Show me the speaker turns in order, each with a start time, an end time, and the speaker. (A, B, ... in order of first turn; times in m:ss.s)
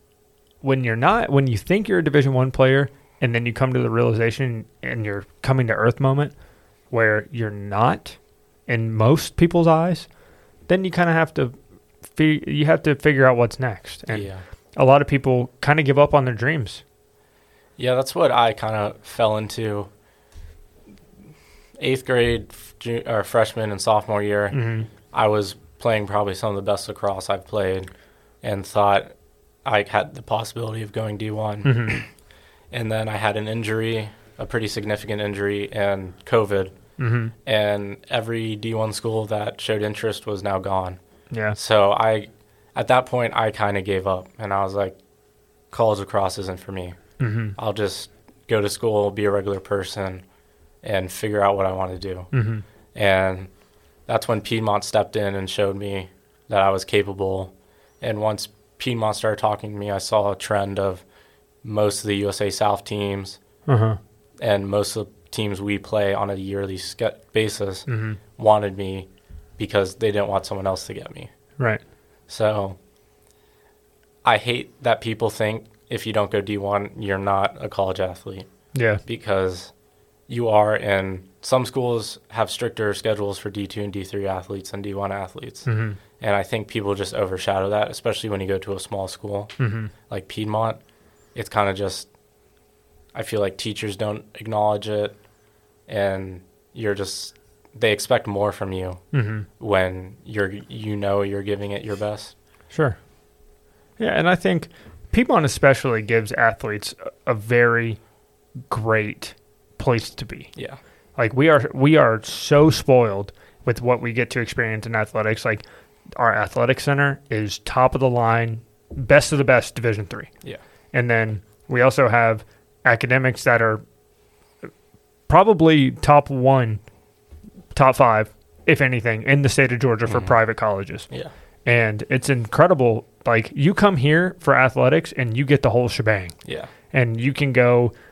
0:00.6-0:06.3 A
0:06.9-0:10.1 A
0:10.7-0:11.5 A
0:12.1-0:16.8 A
0:14.1-0:14.4 B
0:17.8-0:19.9 B
0:21.8-0:27.9 B
0:24.5-0:24.9 A
0:28.4-0:29.1 B
0:29.6-0:32.1 B
0:31.6-0:32.0 A
0:32.7-0:36.7 B
0:37.0-0:37.3 A
0:37.4-0:41.0 B
0:41.3-0:41.6 A
0:41.5-0:45.0 B
0:45.7-0:47.0 B
0:47.2-0:47.5 A
0:47.6-0:50.2 B
0:50.8-0:52.3 B
0:52.3-0:52.6 A
0:52.9-0:53.5 B
0:54.1-1:01.0 B
1:01.6-1:03.4 B
1:03.7-1:04.0 A
1:04.4-1:07.8 B
1:07.9-1:08.2 A
1:08.4-1:11.3 B
1:12.3-1:12.8 B
1:14.2-1:18.4 B
1:18.7-1:19.0 A
1:19.0-1:19.7 B
1:20.3-1:25.7 B
1:25.7-1:26.0 A
1:26.2-1:29.5 B
1:29.6-1:29.9 A
1:30.1-1:30.8 B
1:31.3-1:32.1 B
1:33.1-1:35.1 B
1:35.9-1:39.0 B
1:39.1-1:39.5 A
1:39.6-1:42.3 B
1:42.7-1:43.0 A
1:44.0-1:48.0 A
1:48.7-1:50.5 A
1:51.2-1:55.6 A
1:56.2-2:00.3 A
2:00.9-2:03.8 A
2:05.3-2:06.8 A
2:07.7-2:11.1 A
2:10.1-2:10.4 B
2:11.6-2:16.4 A
2:16.4-2:16.7 B
2:16.9-2:17.9 A